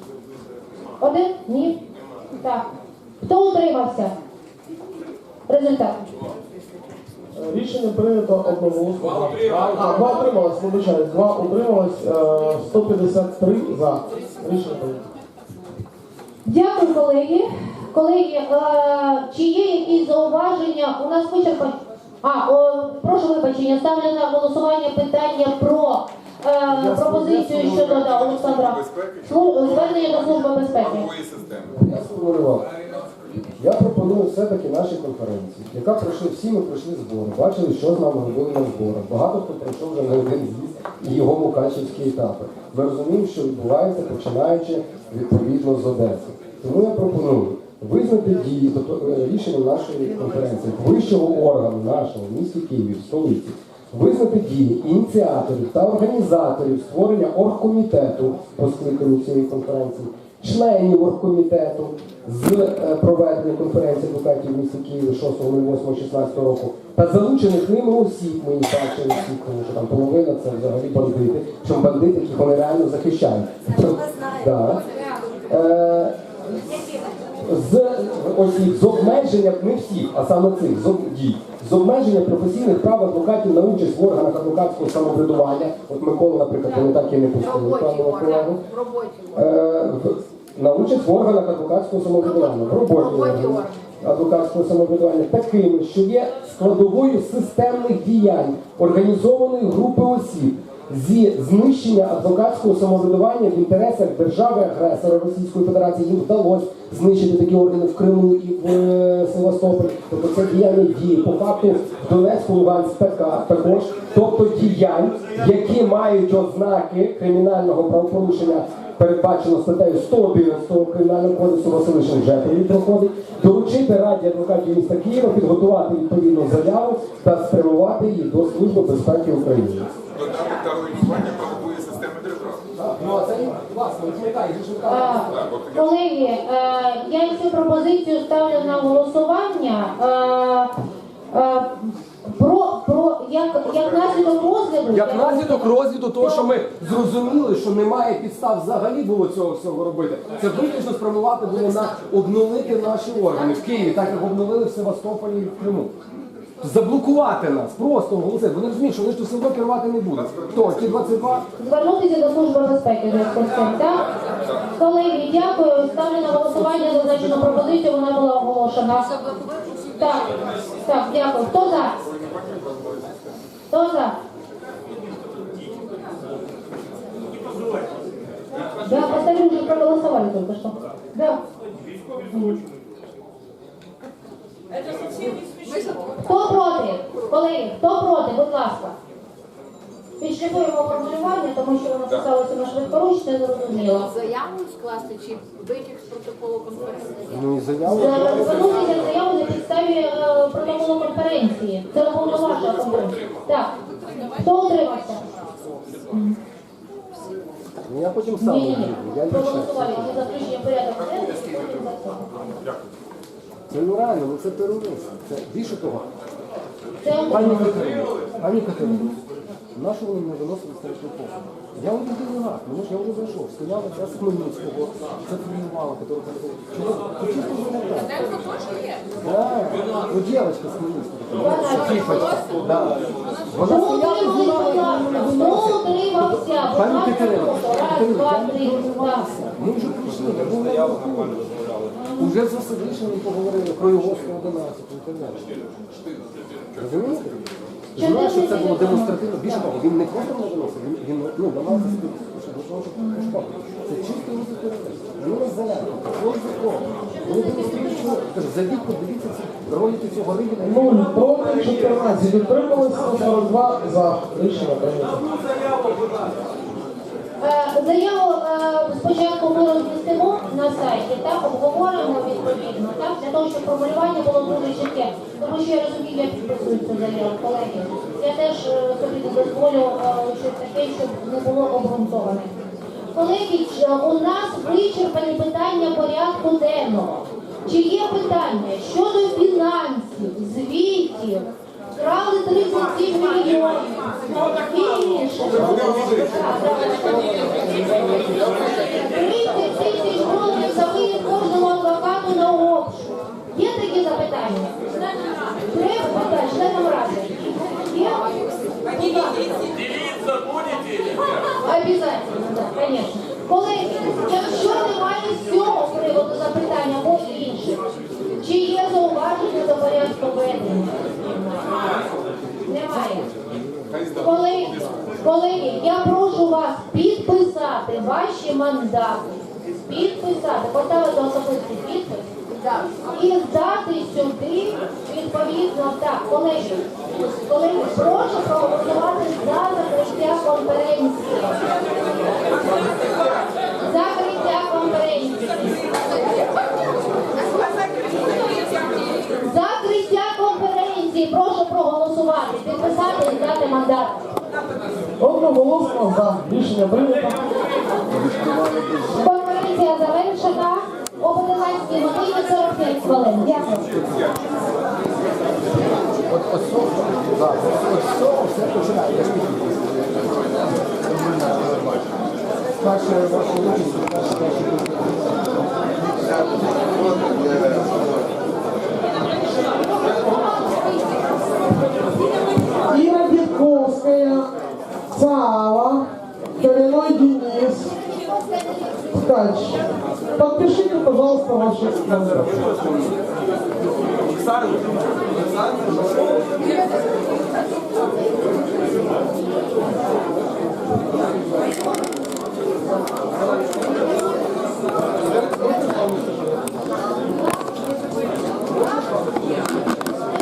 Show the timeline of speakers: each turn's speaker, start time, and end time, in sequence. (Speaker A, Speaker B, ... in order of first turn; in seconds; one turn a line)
Speaker A: 1.0-2.7
Speaker A: 3.2-4.2
Speaker A: 5.5-6.1
Speaker B: 7.4-15.0
Speaker A: 16.4-31.1
Speaker C: 26.7-28.0
Speaker D: 28.5-29.0
Speaker D: 31.0-31.7
Speaker C: 31.8-32.7
Speaker C: 33.6-74.8
Speaker C: 75.5-76.8
Speaker C: 77.4-88.6
Speaker C: 89.3-129.9
Speaker D: 130.2-132.6
Speaker C: 132.8-135.5
Speaker A: 134.9-140.7
Speaker A: 141.3-146.4
Speaker C: 144.9-155.9
Speaker C: 156.6-161.4
Speaker A: 161.6-164.1
Speaker A: 164.8-169.1
Speaker C: 167.1-167.5
Speaker A: 170.0-172.0
Speaker A: 173.7-174.2
Speaker A: 178.8-181.4
Speaker A: 182.3-182.6
Speaker A: 186.2-189.0
Speaker A: 190.2-194.2
Speaker E: 194.5-197.2
Speaker C: 197.3-198.6
Speaker A: 197.9-203.7
Speaker A: 204.3-205.3
Speaker A: 206.1-206.4
Speaker C: 207.8-210.1
Speaker A: 208.4-212.3
Speaker C: 213.7-216.1
Speaker A: 217.0-217.8
Speaker C: 217.3-219.1
Speaker A: 218.8-219.1
Speaker C: 219.7-228.4
Speaker C: 229.2-233.0
Speaker A: 231.3-232.4
Speaker C: 233.5-245.5
Speaker A: 233.6-239.3
Speaker A: 242.0-242.3
Speaker C: 246.7-261.2
Speaker A: 248.0-249.5
Speaker A: 251.7-252.0
Speaker A: 253.0-253.2
Speaker B: 260.6-265.2
Speaker A: 267.4-282.5
Speaker A: 283.1-304.8
Speaker A: 305.6-308.3
Speaker A: 308.9-309.6
Speaker A: 311.6-317.8
Speaker A: 318.4-321.9
Speaker A: 322.6-323.3
Speaker A: 324.2-332.3
Speaker A: 333.1-341.6
Speaker A: 343.8-345.9
Speaker A: 349.4-354.2
Speaker B: 355.2-357.4
Speaker C: 358.1-359.2
Speaker A: 359.1-363.8
Speaker C: 366.3-370.2
Speaker C: 371.1-372.0
Speaker C: 372.8-375.5
Speaker D: 376.2-378.0
Speaker B: 382.8-384.5
Speaker B: 385.1-386.1
Speaker B: 386.6-387.9
Speaker B: 389.1-389.8
Speaker B: 390.4-392.5